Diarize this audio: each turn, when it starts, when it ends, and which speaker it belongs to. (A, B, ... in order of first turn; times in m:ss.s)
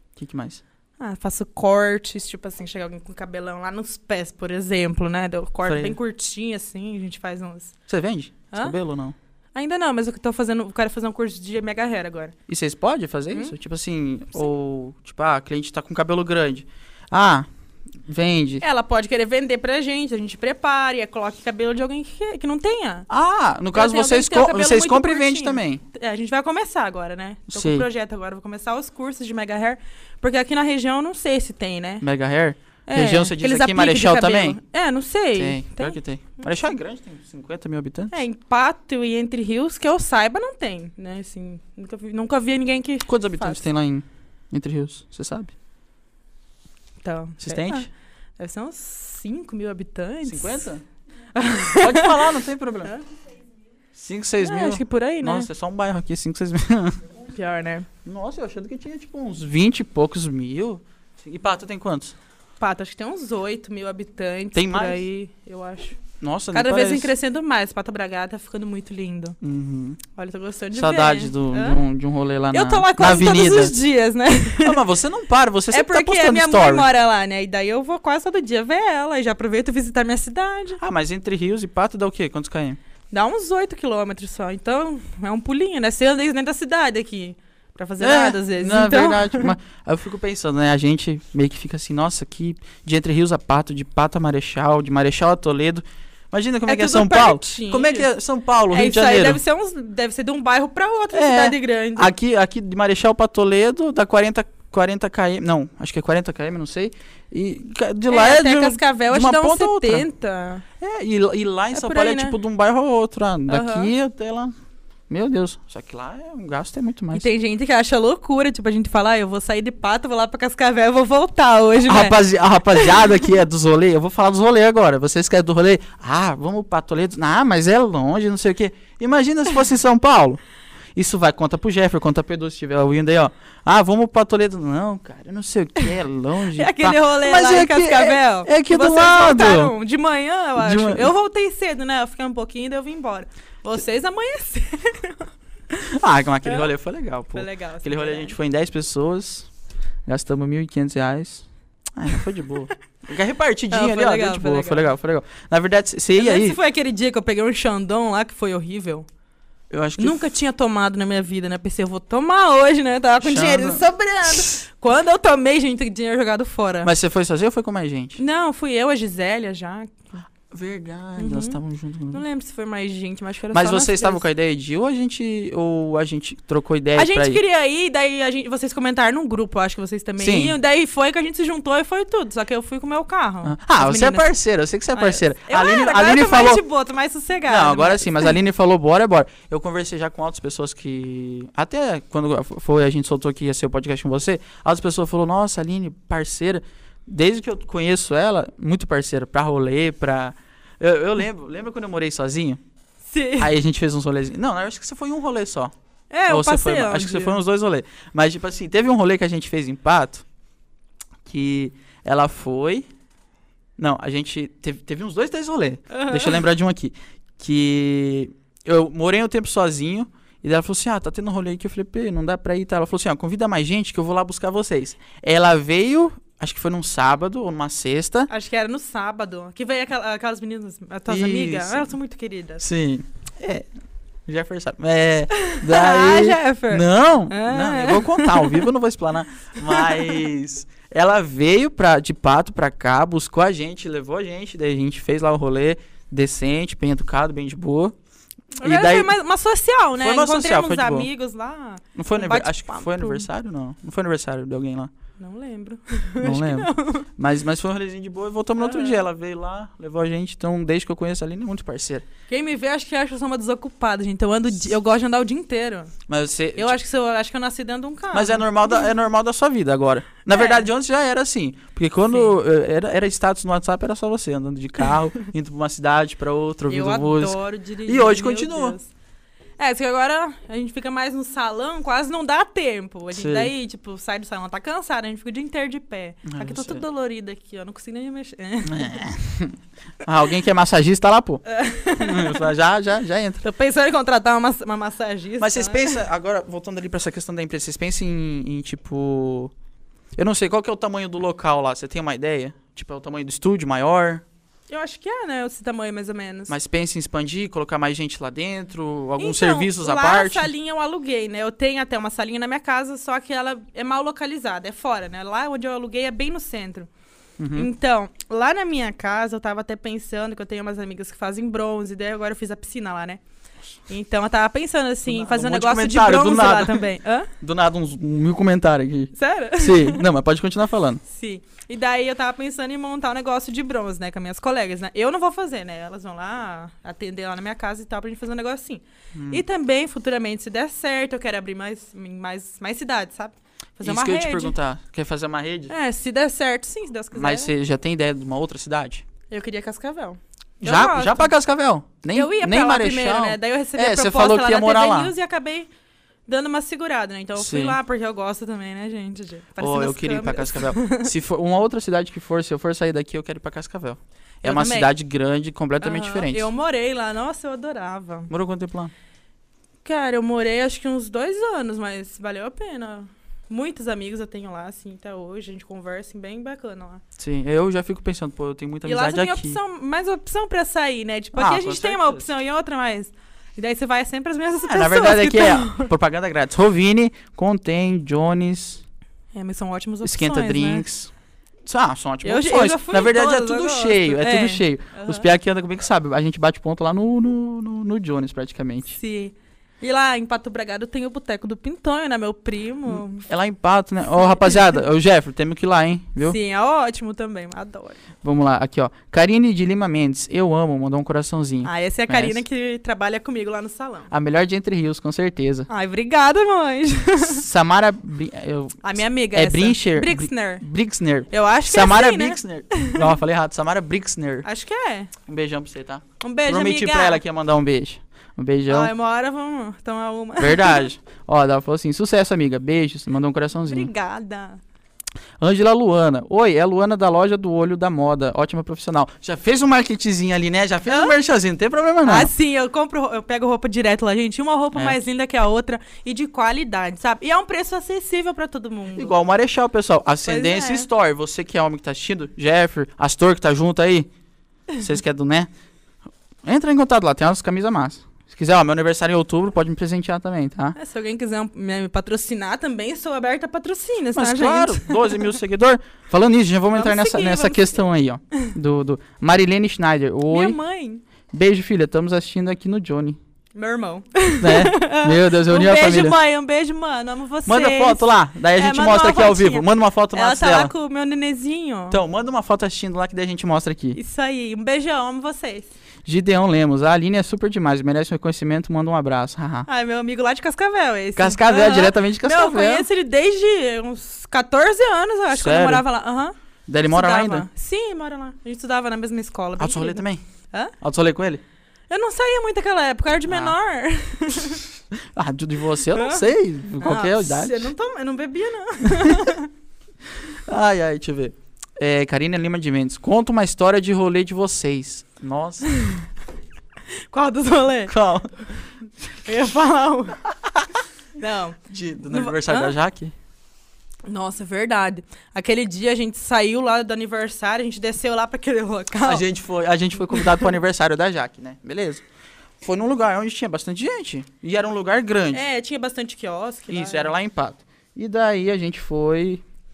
0:00.2-0:00.6 A
0:01.0-0:07.7 B
0:05.6-0:06.0 A
0:07.9-0:09.1 A
0:09.5-0:12.3 B
0:12.5-0:17.4 A
0:18.1-0:18.6 A
0:18.6-0:23.1 B
0:23.1-0:25.8 A
0:23.7-0:32.0 B
0:27.5-0:27.8 A
0:32.0-0:34.6 A
0:32.9-0:36.5 B
0:35.3-0:38.1 A
0:38.1-0:43.6 B
0:43.0-0:45.5 A
0:47.0-0:50.7 B
0:47.4-0:47.9 A
0:50.2-0:50.8 A
0:51.3-0:53.0 B
0:51.7-0:53.0 A
0:53.9-0:57.0 A
0:54.4-0:55.5 B
0:57.2-0:57.9 B
0:58.0-1:02.1 A
1:02.6-1:06.0 B
1:04.5-1:05.0 A
1:06.2-1:07.1 A
1:06.5-1:09.4 B
1:09.4-1:10.0 A
1:10.1-1:11.8 B
1:10.7-1:13.7 A
1:12.5-1:14.8 B
1:14.6-1:16.9 A
1:15.7-1:20.8 B
1:20.8-1:22.8 A
1:23.1-1:29.5 B
1:28.0-1:39.4 A
1:36.7-1:38.1 B
1:38.7-1:42.1 B
1:41.1-1:50.0 A
1:48.1-1:50.6 B
1:50.8-1:54.5 A
1:51.7-1:52.4 B
1:53.5-1:53.9 B
1:55.1-1:57.3 A
1:57.1-2:02.2 B
2:01.8-2:10.4 A
2:02.7-2:03.2 B
2:10.9-2:19.7 A
2:16.4-2:25.3 B
2:20.6-2:21.1 A
2:25.8-2:29.5 A
2:26.4-2:26.7 B
2:27.3-2:28.4 B
2:30.0-2:36.6 A
2:33.7-2:34.9 B
2:36.1-2:39.1 B
2:39.7-2:40.3 A
2:40.0-2:46.9 B
2:43.2-2:44.6 A
2:46.8-2:48.2 A
2:48.2-2:50.1 B
2:50.5-2:52.2 A
2:51.2-2:51.6 B
2:52.1-2:54.2 B
2:53.5-2:57.4 A
2:56.9-3:04.3 B
3:00.2-3:00.6 A
3:03.4-3:06.6 A
3:04.9-3:08.4 B
3:07.5-3:22.6 A
3:23.1-3:23.5 B
3:23.4-3:25.7 A
3:26.1-3:27.4 B
3:26.3-3:30.2 A
3:31.2-3:32.9 A
3:33.8-3:48.3 A
3:35.9-3:36.4 B
3:48.3-3:52.6 B
3:51.1-3:51.9 A
3:52.6-3:53.7 A
3:54.3-4:07.9 A
3:55.4-3:58.7 B
3:59.7-4:00.3 B
4:08.6-4:09.1 A
4:08.6-4:13.3 B
4:10.0-4:11.1 A
4:11.9-4:14.9 A
4:15.2-4:17.0 B
4:16.2-4:22.0 A
4:18.6-4:19.0 B
4:22.3-4:25.9 B
4:26.1-4:26.8 A
4:26.6-4:28.8 B
4:28.1-4:38.8 A
4:30.3-4:30.7 B
4:36.7-4:38.9 B
4:39.6-4:49.0 B
4:43.1-4:43.5 A
4:46.2-4:46.8 A
4:48.6-4:53.4 A
4:51.4-4:52.5 B
4:53.4-4:56.0 B
4:55.4-4:59.5 A
5:00.2-5:04.2 A
5:04.7-5:06.5 B
5:06.5-5:10.5 A
5:09.2-5:16.9 B
5:17.4-5:17.7 A
5:17.5-5:23.2 B
5:23.9-5:27.3 B
5:25.1-5:26.8 A
5:27.4-5:31.0 A
5:29.1-5:30.0 B
5:31.1-5:44.5 B
5:39.1-5:39.4 A
5:43.8-5:45.7 A
5:45.7-5:47.5 B
5:47.1-5:49.0 A
5:49.3-5:51.3 B
5:50.6-5:55.1 A
5:52.1-5:55.7 B
5:56.3-6:01.1 B
5:57.4-5:57.8 A
5:59.6-6:06.5 A
6:04.4-6:04.9 B
6:05.8-6:08.3 B
6:08.3-6:08.9 A
6:09.8-6:17.0 B
6:17.2-6:19.6 A
6:18.8-6:25.9 B
6:21.4-6:22.2 A
6:24.6-6:28.8 A
6:29.3-6:30.8 B
6:30.0-6:31.1 A
6:31.6-6:39.0 A
6:32.2-6:35.3 B
6:38.9-6:43.2 B
6:42.9-6:46.4 A
6:46.2-6:48.0 B
6:48.2-6:52.4 A
6:51.6-6:54.1 B
6:54.1-6:55.7 A
6:55.7-6:57.4 B
6:57.2-7:04.4 A
6:58.8-7:00.6 B
7:01.3-7:03.1 B
7:04.4-7:05.1 B
7:05.2-7:08.9 A
7:06.2-7:07.2 B
7:08.7-7:10.9 B
7:10.4-7:13.9 A
7:13.7-7:14.6 B
7:15.4-7:22.3 A
7:20.9-7:21.2 B
7:22.0-7:29.2 B
7:28.9-7:34.1 A
7:30.2-7:30.9 B
7:34.7-7:35.5 A
7:36.4-7:40.8 A
7:40.8-7:45.3 B
7:44.1-7:50.6 A
7:46.7-7:47.8 B
7:50.3-7:51.0 B
7:51.3-7:53.2 A
7:53.5-8:02.0 B
7:54.4-7:56.2 A
7:57.4-8:00.7 A
8:01.9-8:04.0 A
8:03.9-8:05.7 B
8:06.0-8:09.7 A
8:09.7-8:16.3 B
8:11.2-8:12.8 A
8:15.3-8:15.8 A
8:16.7-8:17.5 A
8:16.9-8:20.7 B
8:19.6-8:20.2 A
8:20.8-8:21.4 A
8:21.9-8:24.6 B
8:23.3-8:23.5 A
8:25.1-8:27.7 A
8:25.9-8:29.5 B
8:28.9-8:29.3 A
8:30.3-8:35.7 A
8:35.8-8:36.0 B
8:36.9-8:37.9 B
8:37.9-8:38.6 A
8:39.2-8:40.2 B
8:41.2-8:42.7 B
8:41.7-8:43.1 A
8:44.0-8:49.2 B
8:49.0-8:52.0 A
8:50.1-8:50.5 B
8:52.6-8:55.4 A
8:55.3-8:57.1 B
8:56.7-8:59.4 A